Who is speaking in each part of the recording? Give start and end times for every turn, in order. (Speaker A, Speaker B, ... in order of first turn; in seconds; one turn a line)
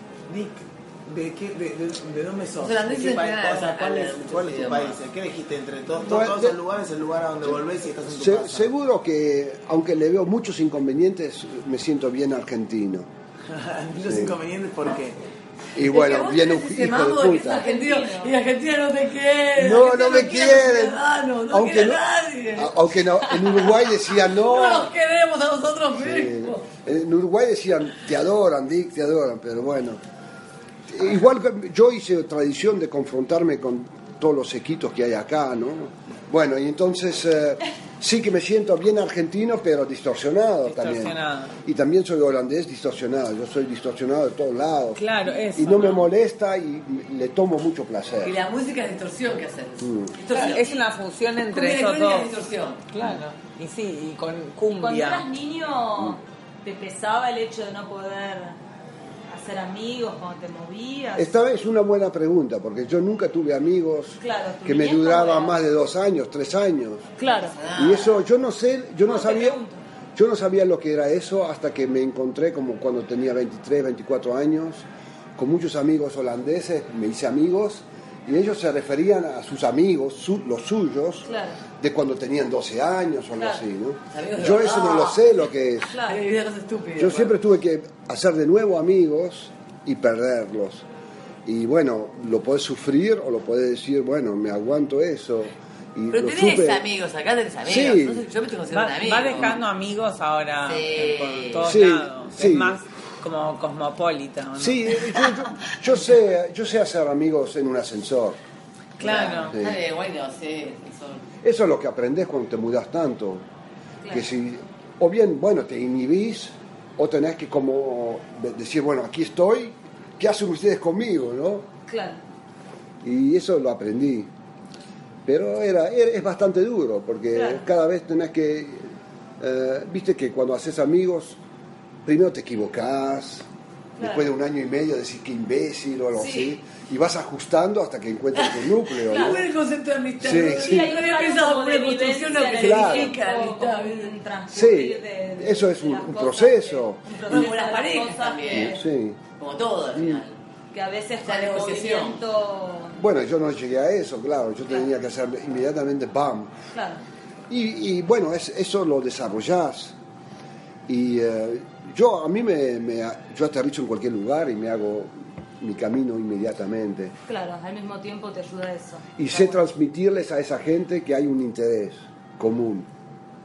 Speaker A: 0.3-8.7
Speaker B: 2.6-5.0
Speaker C: 6.0-6.6
Speaker C: 8.1-13.1
Speaker A: 13.5-15.2
Speaker C: 14.0-14.4
Speaker C: 15.7-17.7
Speaker B: 15.8-26.6
Speaker D: 17.4-18.3
Speaker C: 19.5-24.9
Speaker C: 25.9-30.0
Speaker C: 30.9-48.4
Speaker E: 40.6-41.5
Speaker E: 45.0-46.1
Speaker B: 48.2-50.8
Speaker C: 49.8-50.1
Speaker E: 50.3-52.3
Speaker B: 51.5-52.8
Speaker E: 52.9-55.2
Speaker D: 54.7-58.6
Speaker D: 59.3-61.3
Speaker C: 61.2-67.1
Speaker D: 64.2-65.6
Speaker D: 67.2-67.5
Speaker B: 67.5-68.2
Speaker C: 67.7-69.6
Speaker D: 69.0-69.8
Speaker C: 70.1-81.3
Speaker D: 81.2-81.6
Speaker C: 81.8-85.9
Speaker D: 83.4-83.6
Speaker B: 84.1-85.4
Speaker D: 85.8-86.2
Speaker B: 86.0-87.3
Speaker C: 87.0-90.8
Speaker C: 91.5-96.8
Speaker B: 96.1-99.6
Speaker C: 97.6-98.2
Speaker E: 98.7-105.3
Speaker B: 100.6-101.8
Speaker C: 101.6-102.8
Speaker C: 104.6-108.4
Speaker E: 109.0-109.6
Speaker B: 109.0-111.2
Speaker C: 109.5-109.8
Speaker C: 111.4-113.5
Speaker D: 114.0-114.3
Speaker C: 114.1-121.7
Speaker D: 121.9-122.2
Speaker C: 123.0-124.3
Speaker C: 125.2-131.4
Speaker D: 127.3-127.6
Speaker C: 132.0-133.4
Speaker D: 134.0-134.3
Speaker C: 134.0-139.4
Speaker D: 136.2-136.6
Speaker B: 138.3-144.1
Speaker D: 139.1-139.4
Speaker C: 140.2-141.0
Speaker D: 140.4-148.8
Speaker C: 142.6-143.2
Speaker C: 144.5-147.4
Speaker B: 147.3-148.8
Speaker C: 148.5-149.2
Speaker B: 149.4-150.4
Speaker C: 149.9-150.2
Speaker D: 150.7-153.0
Speaker B: 151.2-152.2
Speaker C: 153.0-156.5
Speaker D: 156.7-157.0
Speaker C: 157.5-159.9
Speaker C: 160.9-167.1
Speaker D: 167.3-169.6
Speaker C: 169.2-172.9